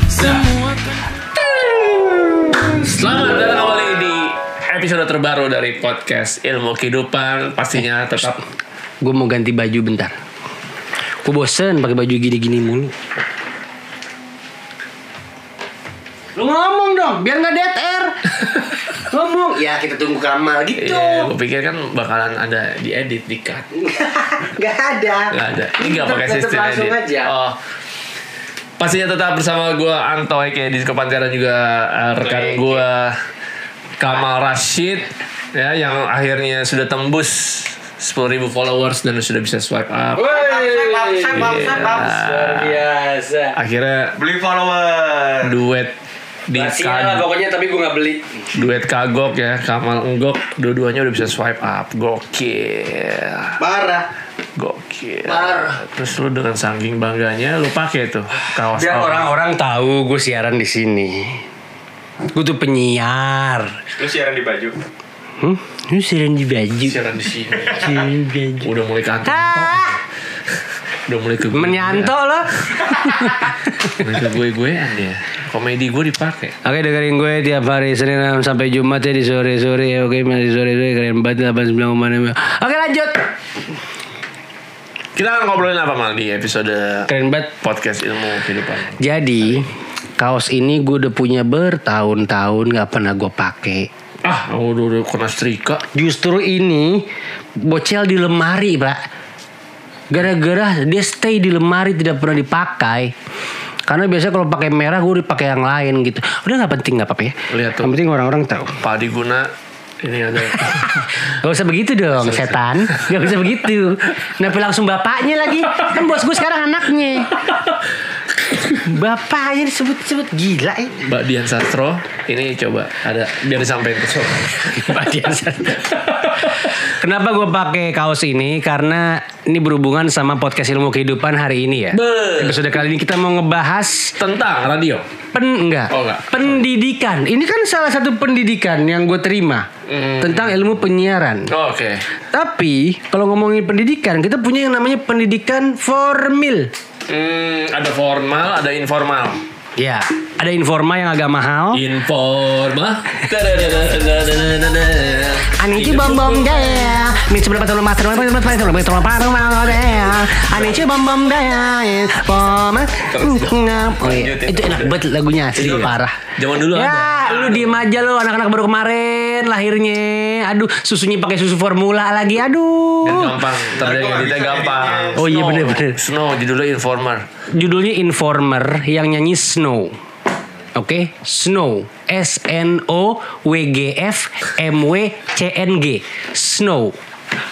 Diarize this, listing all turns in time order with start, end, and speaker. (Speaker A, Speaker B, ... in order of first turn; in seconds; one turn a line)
Speaker A: 0.1-0.5
Speaker B: 1.9-2.9
Speaker A: 2.8-8.4
Speaker B: 9.0-10.2
Speaker B: 11.2-12.9
Speaker B: 16.4-21.3
Speaker A: 20.8-23.7
Speaker B: 23.8-27.3
Speaker A: 25.3-27.6
Speaker A: 28.8-33.3
Speaker B: 32.3-32.6
Speaker A: 34.0-40.4
Speaker B: 40.2-43.6
Speaker C: 40.3-42.2
Speaker A: 41.3-42.8
Speaker A: 43.5-44.2
Speaker C: 44.2-45.6
Speaker A: 45.4-46.0
Speaker A: 46.5-47.3
Speaker B: 46.5-48.4
Speaker A: 48.5-53.6
Speaker C: 53.6-54.1
Speaker A: 54.6-59.3
Speaker B: 55.3-55.8
Speaker B: 58.7-61.5
Speaker B: 62.3-63.8
Speaker C: 64.0-64.8
Speaker B: 65.4-67.0
Speaker A: 66.8-68.0
Speaker B: 67.7-68.7
Speaker A: 68.6-70.0
Speaker B: 69.2-70.0
Speaker A: 70.5-72.1
Speaker B: 71.5-74.0
Speaker A: 73.9-76.6
Speaker B: 76.6-83.2
Speaker A: 85.2-87.1
Speaker B: 87.1-87.5
Speaker A: 87.6-89.0
Speaker B: 89.0-93.9
Speaker A: 94.2-95.8
Speaker B: 95.9-99.0
Speaker B: 100.1-103.1
Speaker B: 103.9-108.8
Speaker A: 107.5-108.0
Speaker A: 108.8-111.2
Speaker B: 110.6-117.4
Speaker A: 112.2-113.5
Speaker B: 118.5-121.0
Speaker A: 120.9-125.1
Speaker B: 124.5-134.2
Speaker A: 125.8-126.8
Speaker A: 131.9-132.7
Speaker A: 134.2-135.1
Speaker B: 135.3-139.7
Speaker A: 135.9-136.6
Speaker A: 139.8-140.7
Speaker B: 140.2-141.5
Speaker A: 141.5-142.1
Speaker B: 142.3-146.7
Speaker A: 147.1-149.4
Speaker B: 149.8-151.8
Speaker A: 151.7-156.9
Speaker B: 155.5-173.4
Speaker A: 163.1-165.0
Speaker A: 165.5-167.8
Speaker A: 173.0-177.3
Speaker C: 173.8-175.2
Speaker B: 175.2-176.0
Speaker B: 177.5-179.9
Speaker B: 180.8-187.0